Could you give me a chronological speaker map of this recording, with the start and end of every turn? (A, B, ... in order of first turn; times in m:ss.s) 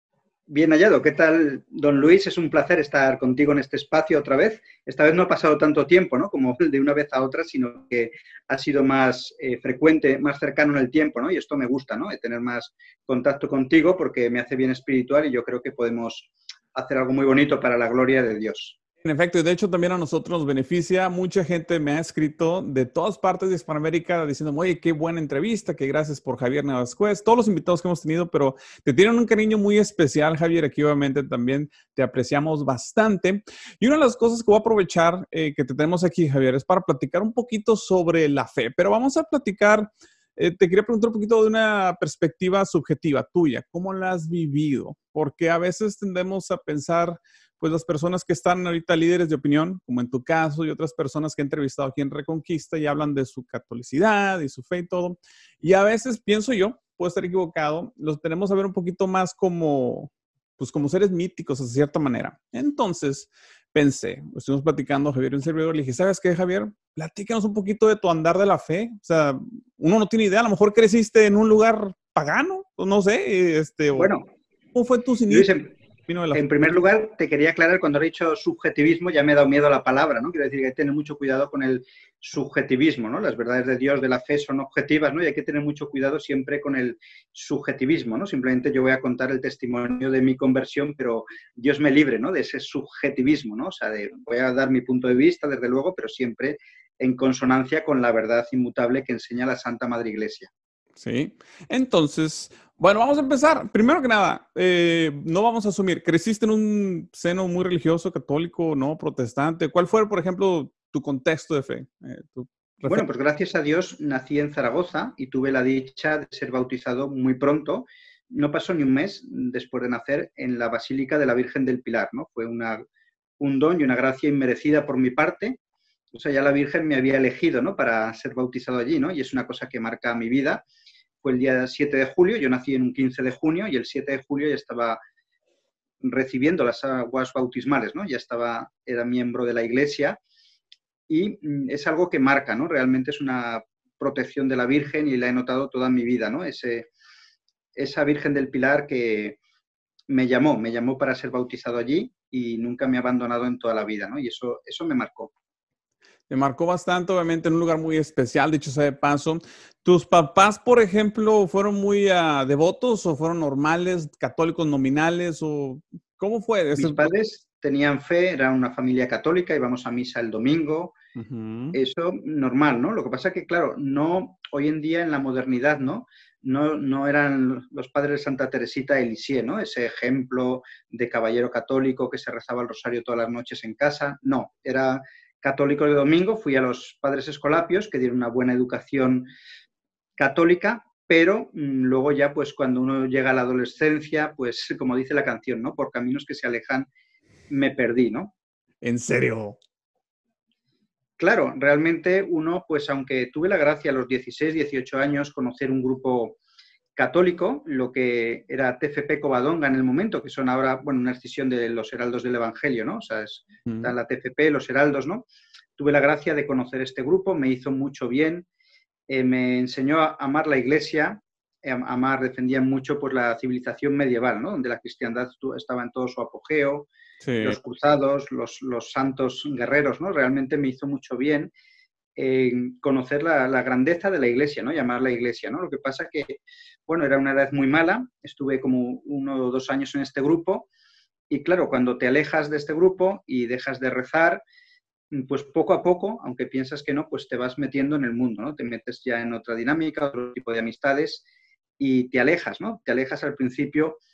0:00.5-0:18.8 A
0:19.0-1:14.1 B
1:13.9-1:14.3 A
1:14.7-1:15.5 B
1:15.3-1:15.7 A
1:16.1-1:16.7 B
1:16.3-1:40.5 A
1:41.0-1:53.0 B
1:52.9-2:02.8 A
2:03.4-2:05.6 A
2:06.1-2:10.6 A
2:11.2-2:15.0 A
2:16.0-2:20.2 A
2:21.1-2:26.9 A
2:27.8-2:29.4 A
2:30.1-2:35.3 A
2:36.3-2:47.1 B
2:46.8-2:50.9 A
2:51.2-2:51.8 B
2:51.7-3:09.3 A
3:10.2-3:16.9 A
3:17.5-3:18.3 A
3:18.8-3:19.6 B
3:21.2-3:26.4 A
3:27.0-3:35.2 A
3:33.6-3:33.9 B
3:35.8-3:38.5 A
3:39.1-3:46.9 A
3:47.2-3:47.6 B
3:47.4-3:51.5 A
3:52.2-4:00.7 A
4:01.3-4:04.4 A
4:05.1-4:11.2 A
4:11.8-4:14.0 A